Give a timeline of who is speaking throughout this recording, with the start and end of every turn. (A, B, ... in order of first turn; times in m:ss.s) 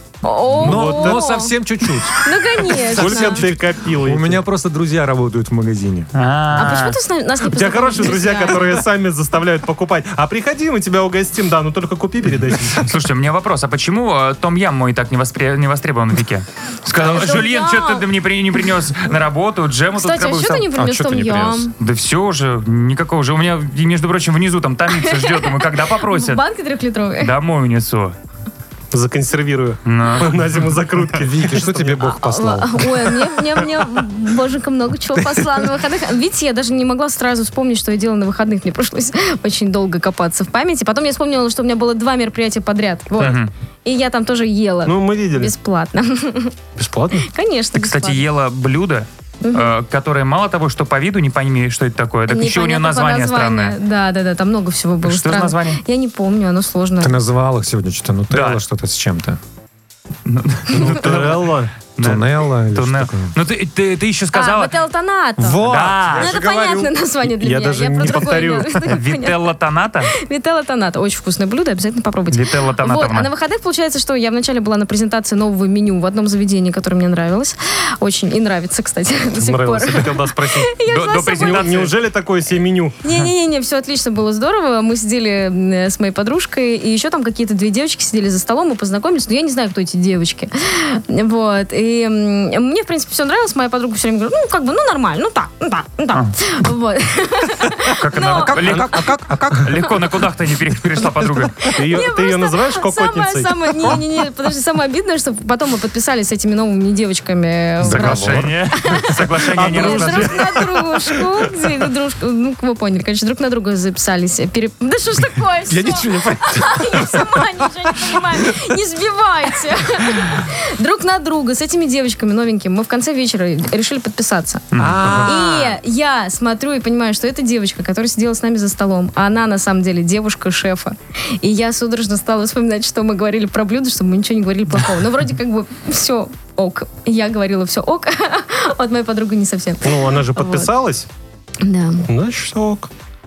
0:00.2-0:01.5 A
0:00.5-0:06.1 B
0:00.5-0:02.0 C
0:02.2-0:03.4 A
0:02.7-0:04.4 C
0:06.2-0:07.0 D
0:06.6-0:08.8 A
0:07.4-0:12.8 C
0:12.8-0:20.7 D
0:17.0-0:18.1 A
0:19.9-0:21.7 A
0:20.7-0:21.7 B
0:21.8-0:26.4 D
0:24.9-0:27.4 A
0:27.2-0:28.2 D
0:28.9-0:32.0 C
0:29.9-0:30.4 D
0:31.2-0:33.3 B
0:32.0-0:46.6 A
0:35.2-0:35.7 B
0:43.2-0:43.5 D
0:44.8-0:45.5 C
0:46.8-0:47.3 C
0:47.2-0:48.2 A
0:47.7-0:53.8 D
0:49.4-0:49.8 A
0:52.3-0:57.2 A
0:55.0-0:55.8 D
0:57.0-0:59.4 B
0:58.3-0:58.6 D
1:00.2-1:04.7 D
1:00.7-1:01.7 C
1:02.0-1:03.4 B
1:04.3-1:09.5 A
1:05.4-1:06.9 B
1:05.6-1:06.3 D
1:07.2-1:08.8 C
1:08.8-1:10.2 D
1:10.1-1:21.8 A
1:12.3-1:13.3 D
1:19.4-1:20.8 C
1:20.9-1:22.0 D
1:21.3-1:23.0 C
1:23.0-1:38.9 A
1:37.9-1:41.6 D
1:38.3-1:40.2 B
1:41.6-2:04.7 A
1:41.7-1:43.9 C
1:47.8-1:49.0 B
1:47.8-1:50.5 D
1:49.5-1:51.5 C
1:55.7-1:58.5 B
2:04.7-2:05.3 D
2:04.7-2:05.8 B
2:05.2-2:20.7 A
2:19.8-2:21.1 C
2:21.6-2:22.1 A
2:22.1-2:22.9 C